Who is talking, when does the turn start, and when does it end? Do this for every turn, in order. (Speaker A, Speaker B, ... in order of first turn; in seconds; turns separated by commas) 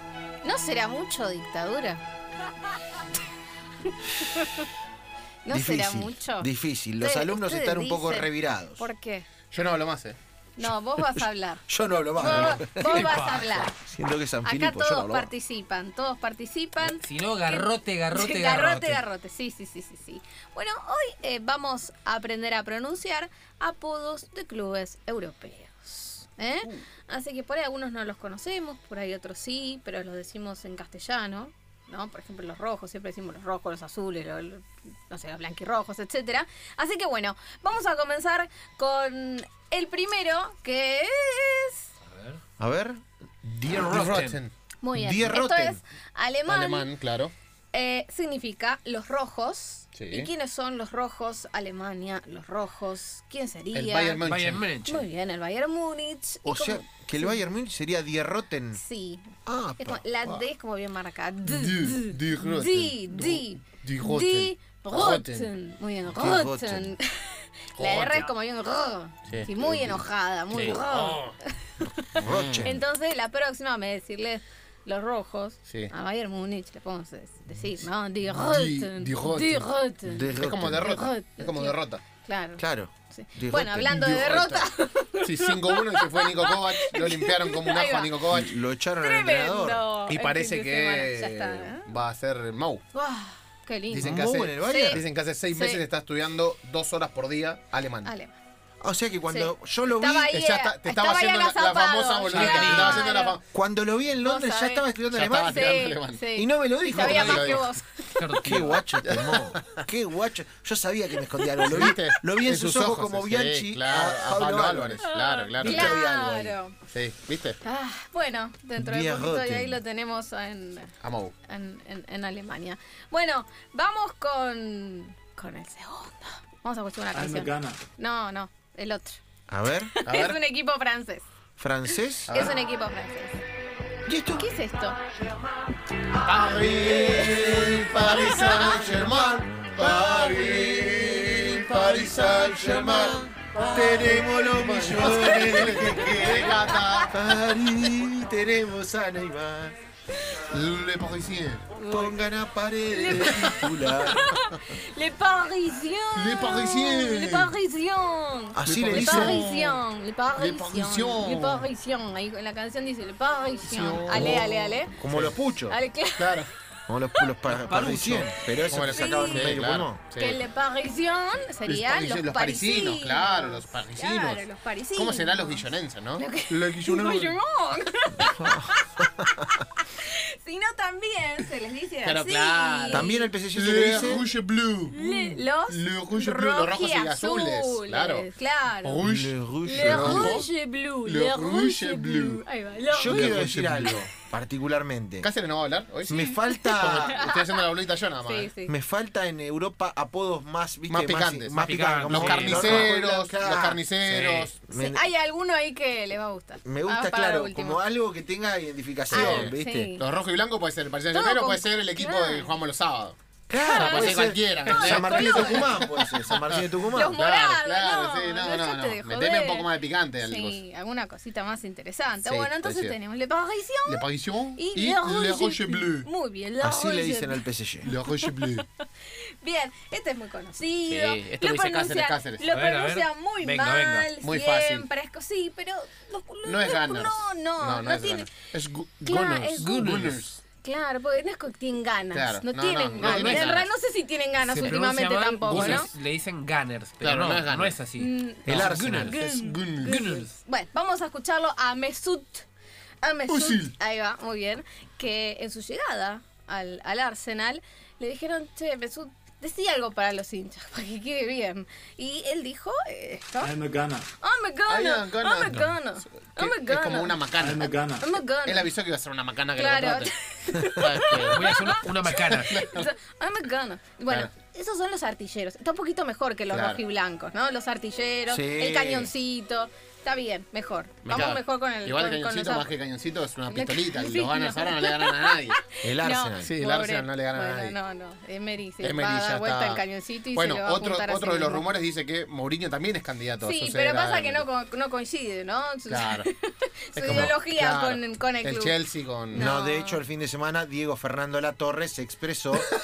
Speaker A: 0.4-2.0, Speaker A: 3.9-4.7, Speaker A: 5.5-9.3, Speaker B: 5.5-8.9, Speaker C: 9.5-10.2, Speaker A: 10.6-13.8, Speaker B: 11.0-15.3, Speaker D: 12.4-13.7, Speaker A: 14.4-41.9, Speaker D: 16.8-19.0, Speaker D: 42.1-42.4, Speaker B: 42.6-43.9, Speaker D: 43.7-44.4, Speaker C: 43.8-44.5, Speaker A: 44.8-46.9, Speaker B: 45.0-45.8, Speaker C: 46.5-47.3, Speaker A: 47.7-54.2, Speaker C: 50.0-50.3, Speaker C: 53.7-54.7, Speaker D: 54.2-55.1, Speaker A: 54.9-57.4, Speaker B: 56.5-58.8, Speaker A: 58.7-88.3, Speaker B: 59.5-60.0, Speaker C: 61.5-65.5, Speaker B: 66.1-66.9, Speaker C: 67.8-68.3, Speaker C: 69.3-71.3, Speaker B: 72.2-72.8, Speaker C: 72.2-72.7, Speaker C: 75.7-75.9, Speaker C: 78.3-79.7, Speaker B: 80.0-80.8, Speaker C: 80.4-82.0, Speaker B: 82.6-84.1, Speaker C: 83.8-84.7, Speaker C: 85.2-88.5, Speaker B: 88.3-89.9, Speaker A: 89.0-91.9, Speaker C: 90.1-92.8, Speaker A: 92.9-95.8, Speaker C: 93.9-98.1, Speaker B: 94.0-95.0, Speaker A: 98.0-98.4, Speaker B: 98.8-100.3, Speaker A: 99.3-103.4, Speaker C: 100.3-103.4, Speaker D: 102.3-103.1, Speaker B: 103.5-105.8, Speaker A: 104.2-108.2, Speaker C: 105.1-106.2, Speaker B: 106.4-107.7, Speaker C: 106.9-107.7, Speaker D: 108.2-108.8, Speaker B: 108.4-115.0, Speaker C: 109.0-109.8, Speaker C: 111.6-116.0, Speaker A: 115.0-116.8, Speaker B: 115.6-116.6, Speaker C: 116.9-117.6, Speaker A: 117.6-120.9, Speaker B: 118.8-119.8, Speaker C: 121.0-121.3, Speaker A: 121.5-129.2, Speaker E: 127.1-127.8, Speaker B: 129.5-129.9, Speaker A: 129.9-131.3, Speaker C: 130.1-130.4, Speaker B: 131.6-132.5, Speaker A: 131.9-133.4, Speaker C: 132.3-132.5, Speaker B: 134.1-134.5, Speaker A: 134.3-135.0, Speaker C: 136.2-147.2, Speaker B: 136.3-149.8, Speaker A: 138.1-138.9, Speaker A: 145.0-147.1, Speaker C: 150.5-151.7, Speaker A: 151.8-152.2, Speaker B: 151.9-154.2, Speaker A: 152.9-165.0, Speaker C: 156.1-157.5, Speaker B: 158.6-159.5, Speaker C: 158.7-159.8, Speaker C: 160.3-161.7, Speaker B: 163.7-165.8, Speaker C: 163.8-165.3, Speaker A: 165.7-166.4, Speaker C: 166.2-166.5, Speaker B: 166.9-170.0, Speaker A: 167.2-167.5, Speaker C: 167.6-170.4, Speaker A: 168.9-169.6, Speaker A: 170.2-183.3, Speaker C: 171.7-174.4, Speaker C: 174.9-177.4, Speaker B: 178.2-179.3, Speaker C: 182.0-188.3, Speaker B: 182.9-184.3, Speaker A: 183.9-184.3, Speaker A: 184.9-189.1, Speaker C: 188.8-190.5, Speaker B: 189.0-190.4, Speaker A: 189.6-194.1, Speaker C: 191.1-192.4, Speaker B: 192.9-195.3, Speaker C: 193.0-194.0, Speaker C: 195.2-198.5, Speaker B: 196.1-197.2, Speaker A: 196.5-197.7, Speaker A: 198.2-198.7, Speaker B: 198.7-205.1, Speaker C: 200.9-204.6, Speaker D: 201.6-202.9, Speaker D: 204.1-204.5, Speaker A: 204.7-207.8, Speaker B: 206.7-209.9, Speaker C: 209.1-220.6, Speaker A: 209.1-210.1, Speaker A: 211.1-212.6, Speaker B: 213.5-217.2, Speaker A: 213.6-216.0, Speaker A: 216.9-224.1, Speaker C: 222.2-223.0, Speaker C: 223.8-226.1, Speaker A: 224.6-228.6, Speaker B: 226.6-227.9, Speaker C: 227.8-228.7, Speaker A: 229.1-238.3, Speaker C: 230.9-232.5, Speaker D: 232.5-234.1, Speaker C: 234.2-234.9, Speaker C: 236.4-240.4, Speaker A: 239.0-239.8, Speaker D: 239.6-240.3, Speaker A: 240.6-245.9, Speaker C: 242.1-243.7, Speaker D: 243.0-243.5, Speaker D: 244.4-249.3, Speaker C: 245.5-245.9, Speaker C: 247.0-247.8, Speaker A: 248.0-252.4, Speaker B: 248.5-249.2, Speaker C: 249.3-250.0, Speaker D: 249.8-250.4, Speaker A: 253.0-263.6, Speaker C: 253.3-253.7, Speaker E: 263.4-264.1, Speaker A: 264.2-267.2, Speaker C: 264.7-270.1, Speaker E: 267.4-268.1, Speaker A: 267.9-268.7, Speaker A: 269.6-282.7, Speaker C: 270.6-271.5, Speaker D: 271.1-272.7, Speaker C: 272.1-272.9, Speaker C: 276.5-276.8, Speaker B: 278.3-279.1, Speaker C: 281.0-285.6, Speaker A: 283.5-291.7, Speaker B: 285.8-286.6, Speaker C: 286.4-287.8, Speaker C: 288.8-289.8, Speaker C: 290.3-294.5, Speaker A: 293.4-298.8, Speaker C: 295.9-296.3, Speaker C: 296.9-299.5, Speaker A: 299.3-300.0, Speaker B: 299.3-302.7